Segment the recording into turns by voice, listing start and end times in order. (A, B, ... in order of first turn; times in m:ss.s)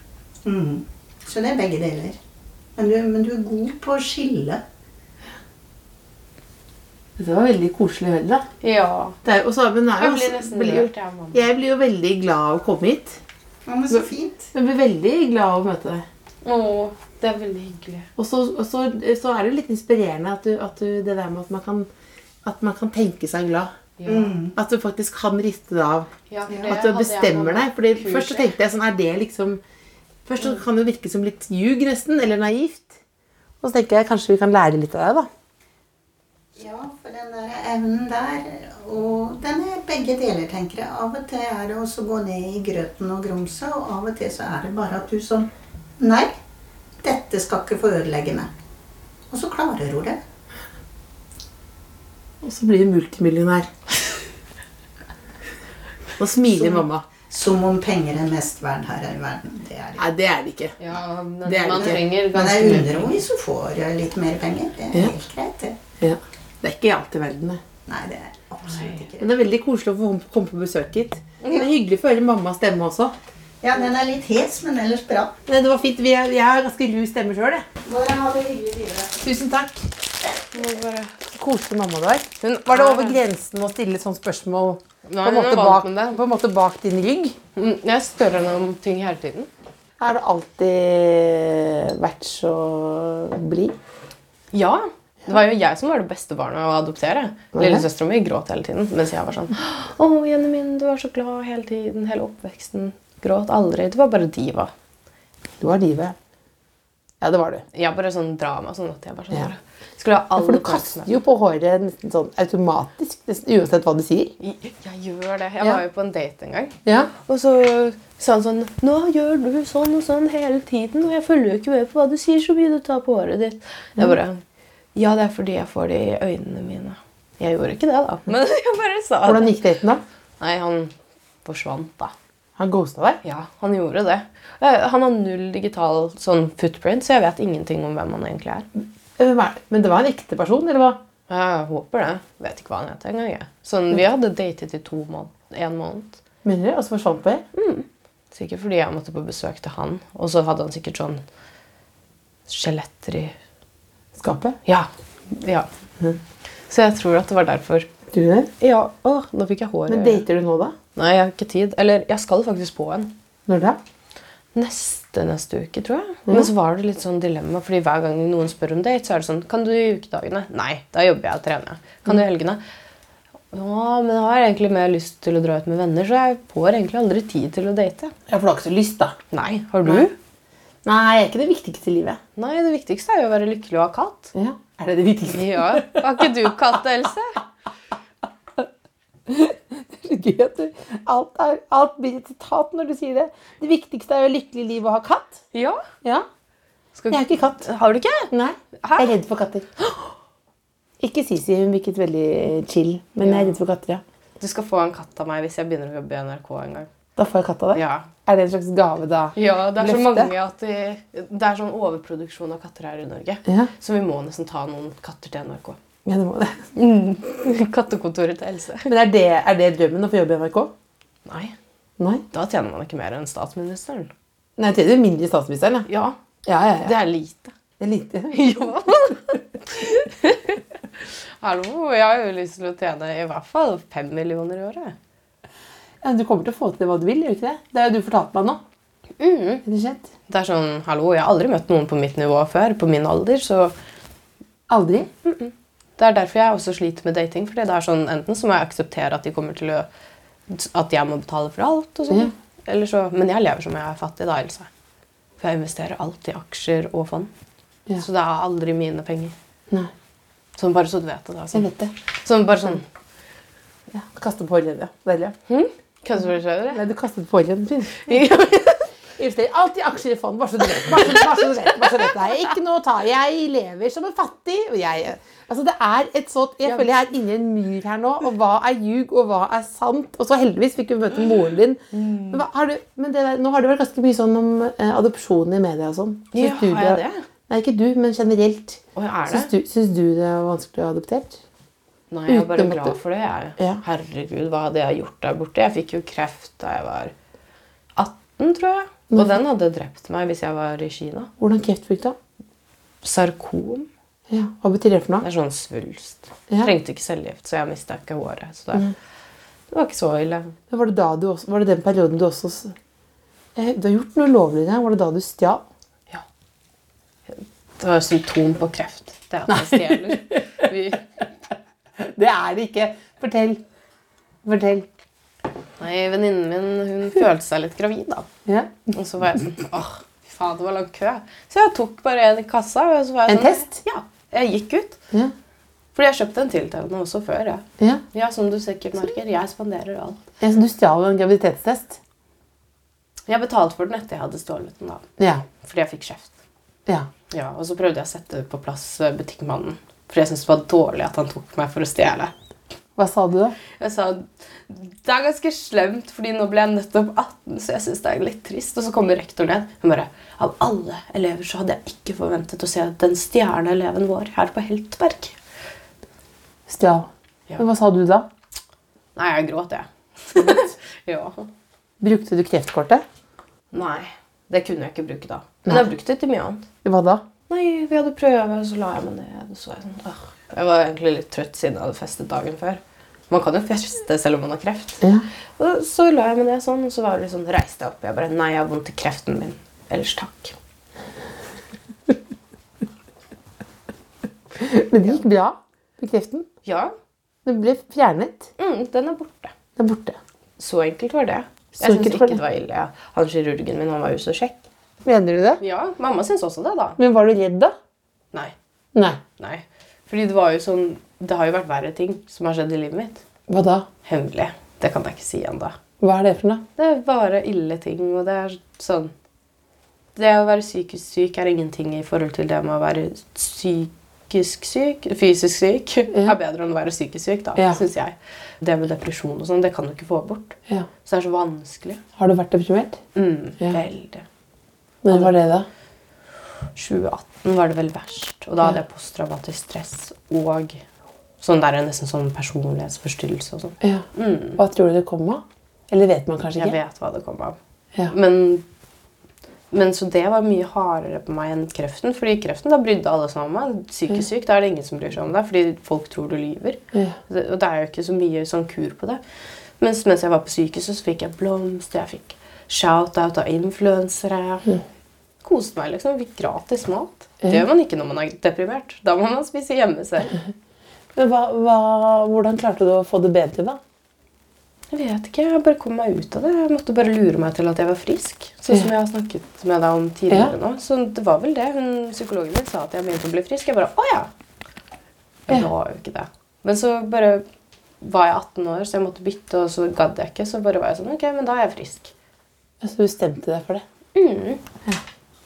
0:00.4-0:02.2 A
0:02.8-0:04.6 A
0:07.2-0:08.5 B
0:08.6-0:09.2 C
0:09.2-0:13.2 B
0:10.0-0:11.5 C
0:13.7-0:14.5 A
0:13.9-0:16.1 B
0:16.4-0:18.1 C
0:18.2-0:21.9 B
0:22.4-0:23.7 B
0:24.0-0:24.3 C
0:24.1-0:24.6 A
0:24.5-0:29.6 B
0:26.3-0:28.5 C
0:30.3-0:33.0 B
0:33.6-0:35.3 B
0:36.6-0:46.3 A
0:47.0-0:48.5 A
0:49.3-0:50.2 A
0:52.4-0:53.7 B
0:56.2-0:57.1 B
0:56.5-1:00.1 A
1:00.0-1:00.8 B
1:00.8-1:03.2 C
1:01.4-1:02.0 B
1:02.3-1:05.8 A
1:06.0-1:07.6 B
1:07.9-1:09.3 A
1:09.2-1:13.2 B
1:13.6-1:15.4 A
1:15.5-1:17.7 B
1:17.8-1:19.2 A
1:19.2-1:19.9 B
1:20.5-1:21.2 C
1:21.3-1:27.4 B
1:22.4-1:23.2 C
1:25.1-1:26.2 C
1:27.6-1:29.5 C
1:30.0-1:33.8 B
1:34.5-1:44.7 C
1:37.5-1:37.8 B
1:45.6-1:46.2 B
1:47.2-1:47.6 B
1:47.7-1:51.1 C
1:50.4-1:54.4 B
1:54.4-2:04.4 C
1:56.8-1:57.1 B
2:05.0-2:09.6 C
2:09.2-2:10.0 B
2:10.4-2:10.9 C
2:11.4-2:12.1 C
2:12.6-2:13.2 B
2:13.2-2:18.7 C
2:19.2-2:21.0 B
2:21.3-2:26.2 C
2:26.4-2:27.4 B
2:27.5-2:31.2 C
2:32.5-2:33.4 C
2:34.2-2:34.6 B
2:34.7-2:35.7 C
2:36.7-2:37.9 C
2:38.1-2:38.5 B
2:38.6-2:40.2 C
2:39.9-2:40.8 B
2:41.0-2:43.1 C
2:43.5-2:43.8 B
2:44.6-2:52.6 C
2:53.5-2:58.1 C
2:58.3-2:59.2 B
2:59.3-3:00.2 C
3:00.8-3:02.2 B
3:02.4-3:04.3 C
3:04.3-3:06.5 B
3:05.3-3:07.4 C
3:09.3-3:15.4 B
3:15.5-3:15.8 C
3:17.0-3:19.2 C
3:17.1-3:17.6 B
3:18.3-3:19.8 B
3:21.0-3:24.0 B
3:23.2-3:23.6 C
3:24.4-3:26.9 C
3:27.2-3:30.3 B
3:27.7-3:28.1 C
3:29.4-3:35.8 C
3:33.5-3:33.7 B
3:36.0-3:36.7 B
3:36.8-3:38.9 C
3:38.8-3:40.7 B
3:41.3-3:41.6 C
3:42.0-3:42.2 B
3:42.3-3:44.1 C
3:44.6-3:45.9 B
3:45.9-3:46.2 C
3:46.4-3:47.0 B
3:46.7-3:47.6 C
3:47.8-3:48.7 B
3:48.3-3:50.6 C
3:51.4-3:55.0 C
3:56.0-3:58.6 B
3:59.2-3:59.6 C
3:59.6-4:00.1 B
4:00.3-4:03.8 C
4:04.7-4:05.1 B
4:05.2-4:09.9 C
4:10.5-4:14.7 C
4:15.4-4:17.3 C
4:18.0-4:19.4 C
4:20.6-4:21.7 C
4:21.5-4:21.9 B
4:22.2-4:22.9 C
4:23.9-4:25.4 B
4:25.5-4:26.8 C
4:26.7-4:28.4 B
4:28.0-4:28.8 C
4:29.2-4:51.4 B
4:41.9-4:42.4 C
4:46.3-4:47.2 C
4:49.0-4:49.5 C
4:52.1-4:57.1 C
4:52.3-4:53.0 B
4:53.6-4:53.8 B
4:58.0-5:01.3 C
5:01.4-5:02.2 B
5:03.0-5:03.9 C
5:04.3-5:05.3 B
5:05.2-5:08.9 C
5:09.7-5:10.6 C
5:10.7-5:12.8 B
5:13.6-5:15.6 B
5:17.3-5:21.1 C
5:19.5-5:20.7 B
5:22.0-5:23.6 B
5:24.4-5:24.9 B
5:25.8-5:28.3 C
5:28.5-5:28.9 B
5:28.9-5:35.0 C
5:33.3-5:33.8 B
5:36.0-5:40.2 C
5:40.4-5:42.0 B
5:43.3-5:45.0 C
5:45.2-5:45.4 B
5:45.6-5:46.3 C
5:47.3-5:52.3 C
5:53.0-5:53.6 B
5:53.8-6:05.4 C
6:06.7-6:08.3 B
6:09.2-6:11.5 C
6:12.0-6:13.0 B
6:13.7-6:16.7 C
6:16.8-6:17.2 B
6:17.5-6:25.0 C
6:25.0-6:25.3 B
6:25.6-6:30.6 C
6:34.6-6:36.5 B
6:36.6-6:36.9 C
6:37.4-6:38.5 B
6:38.6-6:39.5 C
6:39.8-6:40.2 B
6:40.6-6:44.6 C
6:41.8-6:42.4 B
6:45.0-6:45.6 B
6:45.6-6:47.0 C
6:47.0-6:47.8 B
6:49.0-6:49.2 B
6:49.4-6:53.2 C
6:53.5-6:53.9 B
6:54.1-6:55.8 C
6:56.0-6:56.6 B
6:56.8-6:59.1 C
7:00.2-7:12.0 C
7:07.6-7:07.8 B
7:12.2-7:13.0 B
7:13.2-7:14.2 C
7:15.0-7:15.7 B
7:16.8-7:20.8 C
7:21.4-7:24.6 C
7:23.8-7:26.8 B
7:26.5-7:27.6 C
7:28.1-7:28.6 C
7:29.7-7:39.2 C
7:39.8-7:44.7 C
7:45.4-7:50.4 C
7:51.2-7:53.8 B
7:54.9-8:04.3 C
8:00.3-8:00.6 B
8:05.5-8:07.5 C
8:08.0-8:12.1 C
8:12.8-8:13.8 B
8:14.2-8:14.6 C